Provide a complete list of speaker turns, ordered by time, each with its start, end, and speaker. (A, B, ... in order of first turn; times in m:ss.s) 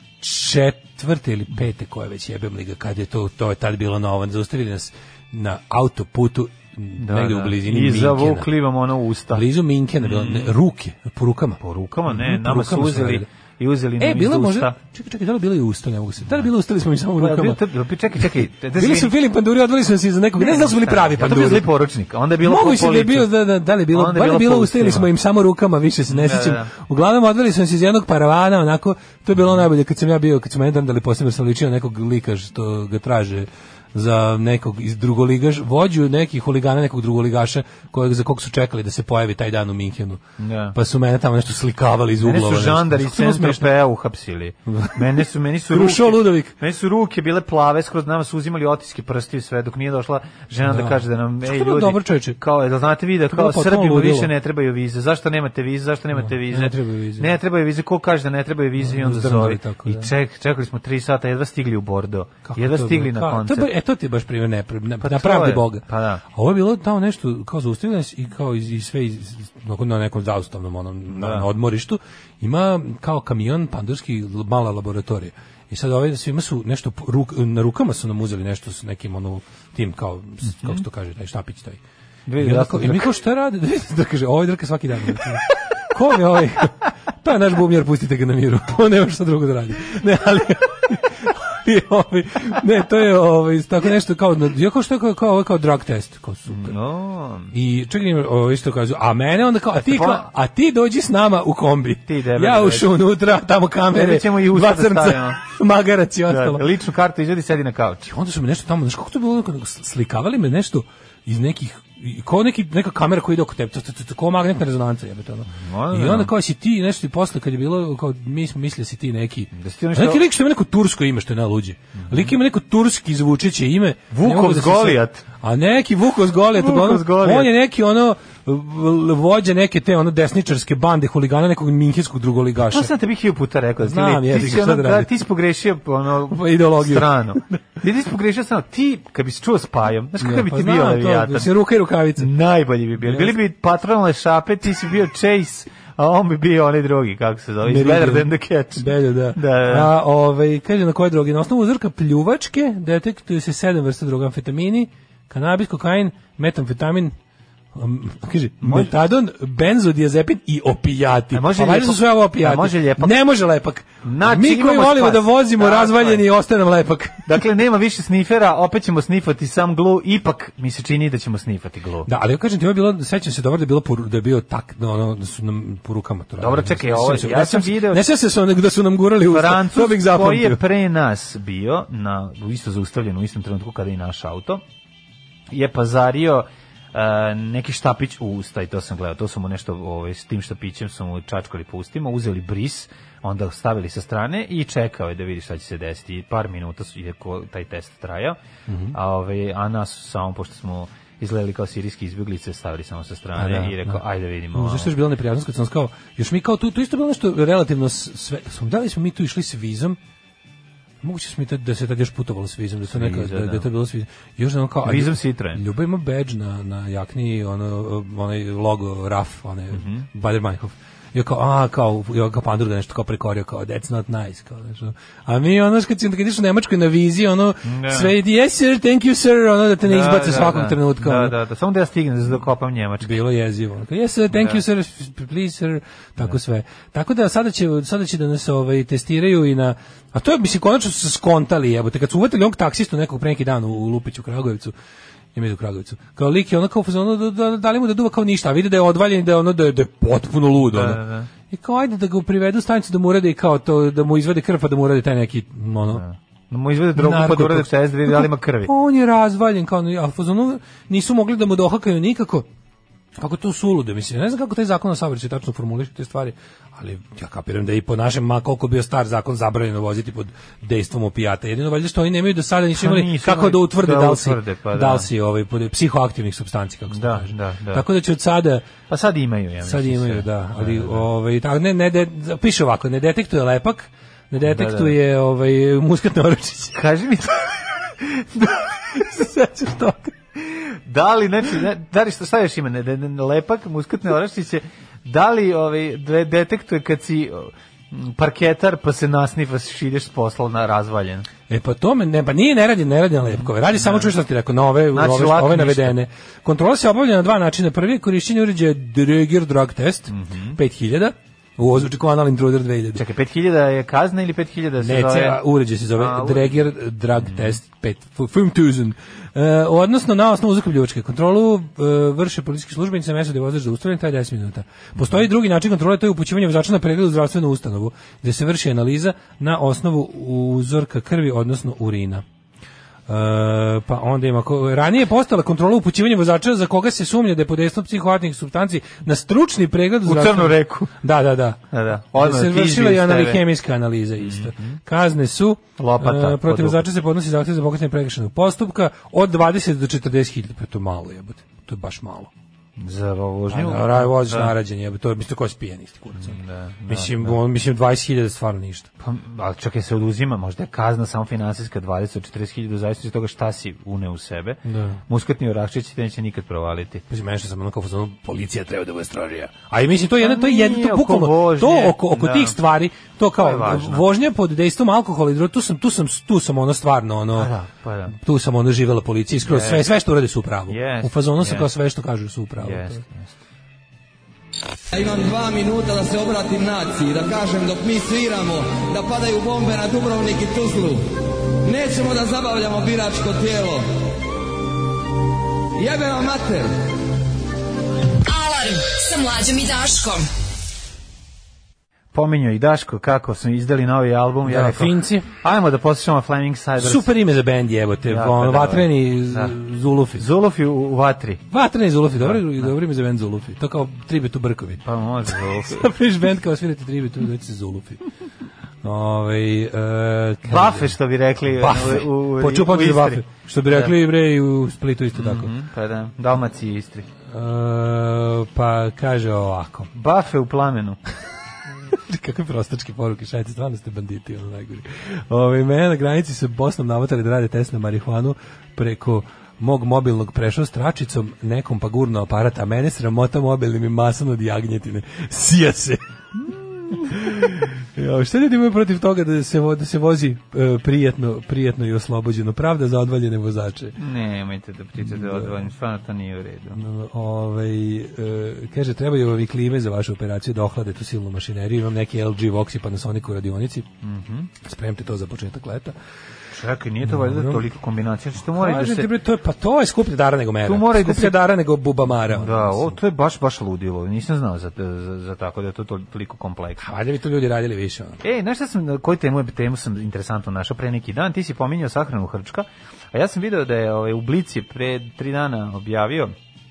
0:00.2-0:08.5 A
0:07.0-0:09.5 B
0:09.3-0:13.3 A
0:10.0-0:10.5 B
0:11.6-0:14.8 B
0:14.0-0:17.6 A
0:17.2-0:19.1 B
0:18.8-0:21.7 A
0:20.4-0:23.3 B
0:22.4-0:40.2 A
0:23.9-0:25.1 B
0:26.1-0:26.7 B
0:40.4-0:40.8 B
0:40.8-0:43.7 A
0:42.2-1:03.7 B
0:44.7-0:45.0 A
0:45.7-0:46.5 A
0:50.7-0:52.4 A
0:53.3-0:54.3 A
0:56.2-0:57.3 A
0:58.8-1:00.1 A
1:02.5-1:21.8 A
1:05.0-1:06.2 B
1:11.1-1:11.5 B
1:20.5-1:20.8 B
1:22.3-1:23.2 B
1:22.4-1:36.8 A
1:36.5-1:37.5 B
1:37.5-1:46.6 A
1:39.8-1:40.3 B
1:42.1-1:43.0 B
1:43.9-1:45.4 B
1:46.3-1:48.1 B
1:48.1-2:12.9 A
1:55.5-1:56.3 B
1:59.5-2:00.2 B
2:02.0-2:02.3 B
2:04.1-2:05.2 B
2:06.5-2:07.5 B
2:12.6-2:21.5 B
2:13.8-2:15.1 A
2:16.3-2:17.6 A
2:20.2-2:22.3 A
2:22.2-2:29.9 B
2:23.0-2:23.4 A
2:27.6-2:37.1 A
2:37.8-2:47.3 A
2:38.6-2:38.9 B
2:41.3-2:43.2 B
2:44.0-2:46.2 B
2:47.3-2:52.1 B
2:52.1-3:00.6 A
2:56.4-2:58.1 B
2:59.3-3:04.6 B
3:05.5-3:18.4 B
3:18.7-3:19.0 A
3:18.9-3:24.9 B
3:23.4-3:24.0 A
3:24.5-3:30.0 A
3:31.0-3:51.4 A
3:32.9-3:33.7 B
3:34.8-3:35.6 B
3:39.7-3:40.1 B
3:47.6-3:48.1 B
3:49.8-3:53.2 B
3:53.0-4:04.7 A
3:54.3-3:54.6 B
4:05.4-4:16.0 A
4:10.7-4:11.3 B
4:15.9-4:18.7 B
4:17.0-4:22.5 A
4:23.2-4:38.7 A
4:32.8-4:35.1 B
4:36.9-4:37.9 B
4:38.9-4:41.0 B
4:39.6-4:46.8 A
4:44.4-4:45.0 B
4:46.8-4:48.7 B
4:48.9-4:50.1 A
4:50.4-5:01.3 B
5:01.5-5:13.0 A
5:03.3-5:04.1 B
5:04.9-5:06.0 B
5:10.1-5:10.6 B
5:13.0-5:15.4 B
5:14.8-5:32.2 A
5:16.0-5:16.6 B
5:17.2-5:17.6 B
5:25.0-5:25.2 B
5:33.1-5:41.6 A
5:40.0-5:40.9 B
5:41.7-5:43.4 B
5:42.1-5:52.3 A
5:44.2-5:44.8 B
5:45.8-5:46.9 B
5:52.8-5:54.5 B
5:53.5-5:58.9 A
5:56.2-5:57.4 B
5:59.0-6:07.0 B
6:04.6-6:05.0 A
6:07.1-6:17.5 A
6:10.2-6:12.6 B
6:13.4-6:14.1 B
6:17.4-6:18.2 B
6:18.2-6:23.0 A
6:19.4-6:19.9 B
6:20.7-6:21.7 B
6:22.6-6:23.3 B
6:24.9-6:33.9 C
6:35.8-6:36.8 C
6:38.2-6:40.3 D
6:42.1-6:47.1 B
6:44.5-6:45.3 A
6:46.8-6:50.2 A
6:48.1-6:49.5 B
6:50.2-6:51.4 B
6:51.5-6:54.8 A
6:52.2-6:52.7 B
6:54.8-6:55.9 B
6:55.6-6:58.0 A
6:58.8-7:00.9 A
7:00.5-7:03.9 B
7:01.5-7:05.5 A
7:05.2-7:07.1 B
7:07.3-7:09.9 A
7:09.9-7:11.0 B
7:11.9-7:26.0 A
7:26.4-7:27.0 B
7:26.9-7:34.0 A
7:34.0-7:36.8 B
7:35.0-7:35.5 A
7:36.8-7:43.9 A
7:44.0-7:44.5 B
7:44.6-7:46.0 A
7:46.5-7:49.1 B
7:47.1-7:47.6 A
7:48.6-7:53.0 A
7:50.6-7:51.4 B
7:52.3-7:56.8 B
7:56.8-7:58.2 A
7:58.2-8:06.3 B